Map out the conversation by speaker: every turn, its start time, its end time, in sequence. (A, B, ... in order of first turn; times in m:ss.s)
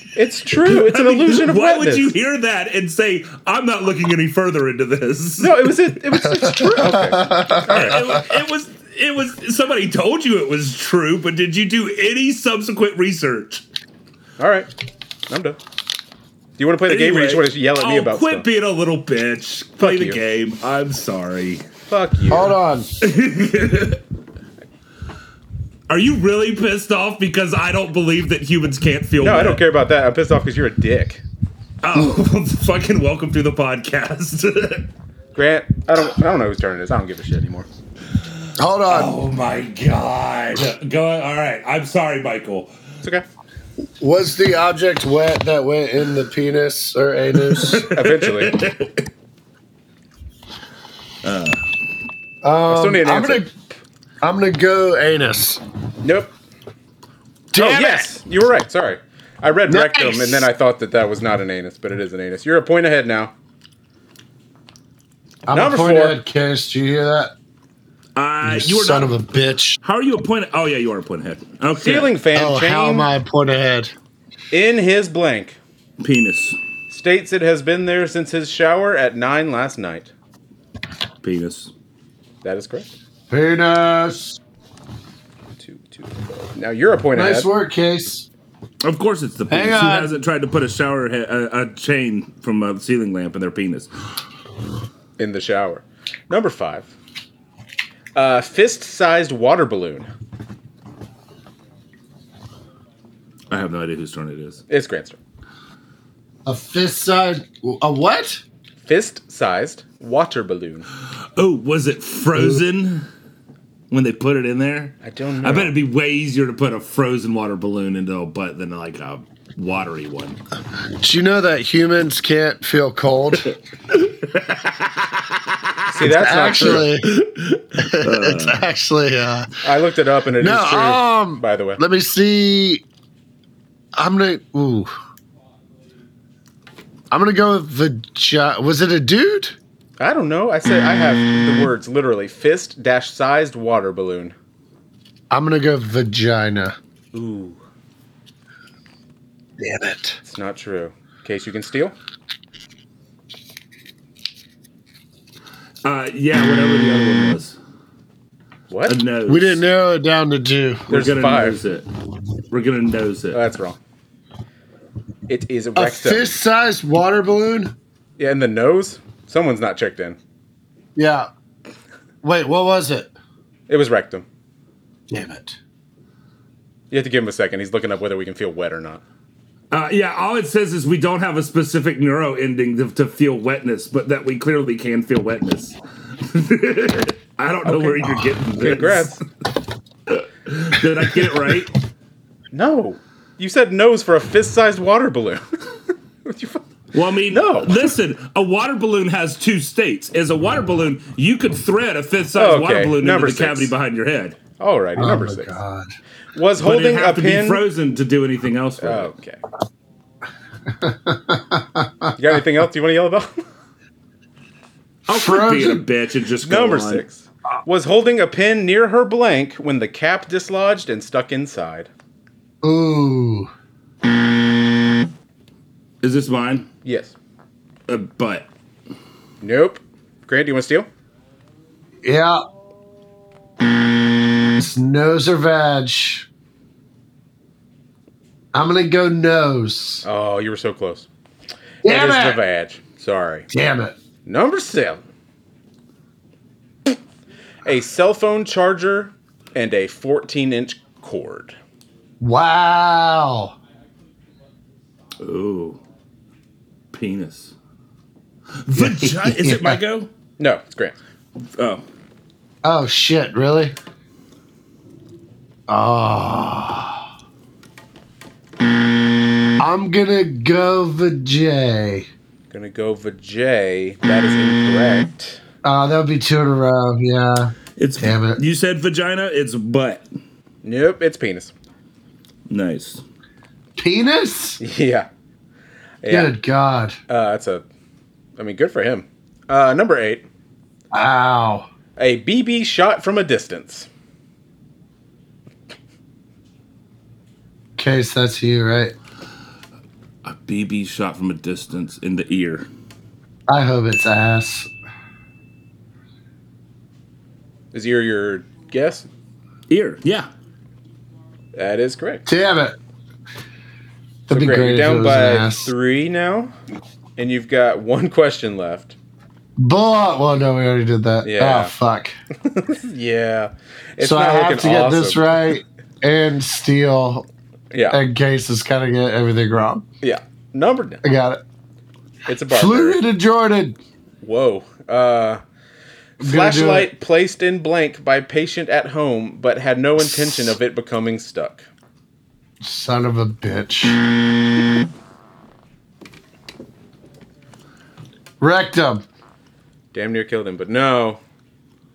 0:00.1-0:02.1 A
0:00.6-0:06.0 B
0:05.4-0:08.3 A
0:06.2-0:07.8 C
0:07.7-0:13.6 B
0:14.4-0:14.7 A
0:15.3-0:15.6 A
0:16.6-0:18.4 A
0:16.9-0:21.6 B
0:19.8-0:20.2 A
0:21.9-0:22.5 A
0:22.3-0:22.9 C
0:23.0-0:24.0 B
0:25.9-0:29.6 B
0:29.2-0:31.2 A
0:31.8-0:34.9 B
0:35.3-0:37.7 A
0:38.6-0:39.2 C
0:38.9-0:42.7 B
0:44.0-0:47.9 C
0:47.5-0:49.0 B
0:47.8-0:48.6 A
0:51.2-0:51.6 B
0:52.4-0:53.5 C
0:52.7-0:53.5 A
0:54.2-0:55.6 C
0:56.0-0:56.3 A
0:57.5-0:58.1 C
0:57.5-1:03.3 A
0:59.7-1:00.5 C
1:05.5-1:07.3 C
1:05.5-1:06.2 A
1:08.2-1:09.1 B
1:08.4-1:09.8 C
1:09.8-1:12.1 B
1:11.8-1:13.1 A
1:12.3-1:13.9 C
1:14.5-1:15.6 A
1:16.0-1:16.6 B
1:16.9-1:20.1 A
1:21.2-1:21.7 B
1:22.4-1:22.9 A
1:23.3-1:24.4 C
1:25.6-1:27.5 A
1:27.1-1:28.2 C
1:28.8-1:33.9 B
1:29.5-1:30.1 C
1:35.2-1:36.9 A
1:38.1-1:40.1 A
1:43.5-1:44.6 B
1:44.7-1:45.2 A
1:46.4-1:48.4 C
1:48.8-1:50.8 A
1:51.4-1:53.0 B
1:53.9-2:00.4 B
1:55.0-1:55.8 A
2:01.0-2:03.6 C
2:03.9-2:05.2 B
2:05.9-2:06.9 A
2:06.0-2:07.1 C
2:06.6-2:08.6 B
2:07.8-2:09.5 C
2:09.6-2:11.8 A
2:10.4-2:12.8 C
2:14.0-2:14.9 C
2:17.1-2:19.5 C
2:20.0-2:24.3 A
2:25.3-2:26.8 C
2:27.1-2:27.6 A
2:29.6-2:30.2 C
2:30.2-2:31.9 A
2:35.8-2:37.6 B
2:38.7-2:39.0 A
2:38.9-2:39.6 B
2:39.3-2:40.9 C
2:40.9-2:41.6 A
2:40.9-2:41.9 B
2:42.5-2:43.4 B
2:43.3-2:43.8 A
2:45.3-2:46.4 A
2:45.7-2:47.7 C
2:48.2-2:50.2 A
2:50.9-2:51.3 C
2:52.2-2:53.1 C
2:53.7-2:54.2 A
2:55.1-2:55.6 C
2:56.9-2:59.0 A
2:59.7-3:09.2 B
3:07.8-3:09.2 A
3:10.1-3:11.7 B
3:12.5-3:15.4 A
3:16.2-3:16.6 A
3:16.9-3:24.4 B
3:17.3-3:18.0 A
3:22.3-3:23.7 A
3:24.6-3:25.5 A
3:25.0-3:25.9 C
3:26.3-3:27.6 A
3:26.6-3:29.1 B
3:28.8-3:29.4 A
3:30.7-3:32.1 C
3:32.1-3:33.4 A
3:35.1-3:35.8 C
3:35.1-3:37.0 B
3:36.4-3:41.9 A
3:42.6-3:43.5 C
3:46.0-3:46.7 B
3:46.8-3:47.1 A
3:47.9-3:48.5 B
3:49.4-3:50.9 A
3:52.0-3:52.4 C
3:54.6-3:56.3 C
3:58.5-4:00.0 C
4:00.0-4:01.1 A
4:01.8-4:02.4 C
4:01.8-4:03.5 A
4:03.5-4:03.9 C
4:04.2-4:05.0 A
4:07.6-4:11.6 A
4:12.2-4:13.5 C
4:15.2-4:15.8 B
4:16.9-4:17.5 B
4:18.6-4:20.1 B
4:18.8-4:19.8 C
4:20.4-4:21.0 A
4:21.6-4:21.8 B
4:22.6-4:23.7 C
4:25.7-4:27.0 C
4:29.6-4:32.1 C
4:32.5-4:35.4 A
4:35.6-4:38.4 C
4:37.8-4:40.0 B
4:40.6-4:41.5 A
4:42.5-4:43.0 B
4:43.8-4:44.6 C
4:44.6-4:45.1 A
4:46.0-4:46.3 A
4:46.1-4:47.0 C
4:47.1-4:47.6 A
4:48.4-4:50.2 A
4:50.9-4:51.7 C
4:52.0-4:53.9 A
4:57.8-4:58.9 C
5:00.2-5:02.7 B
5:03.5-5:04.7 C
5:07.7-5:09.1 A
5:09.7-5:10.3 B
5:11.5-5:12.2 A
5:12.2-5:12.8 C
5:14.3-5:15.7 C
5:14.3-5:16.5 A
5:17.2-5:19.0 A
5:19.6-5:22.2 C
5:21.2-5:21.7 A
5:22.5-5:25.4 A
5:24.0-5:27.2 C
5:27.7-5:28.0 A
5:27.9-5:29.8 C
5:30.0-5:31.0 A
5:31.0-5:31.4 C
5:32.3-5:33.0 A
5:32.5-5:33.8 C
5:34.2-5:35.4 A
5:36.2-5:41.7 A
5:36.2-5:36.9 C
5:42.6-5:44.0 C
5:48.4-5:49.0 C
5:49.9-5:51.2 A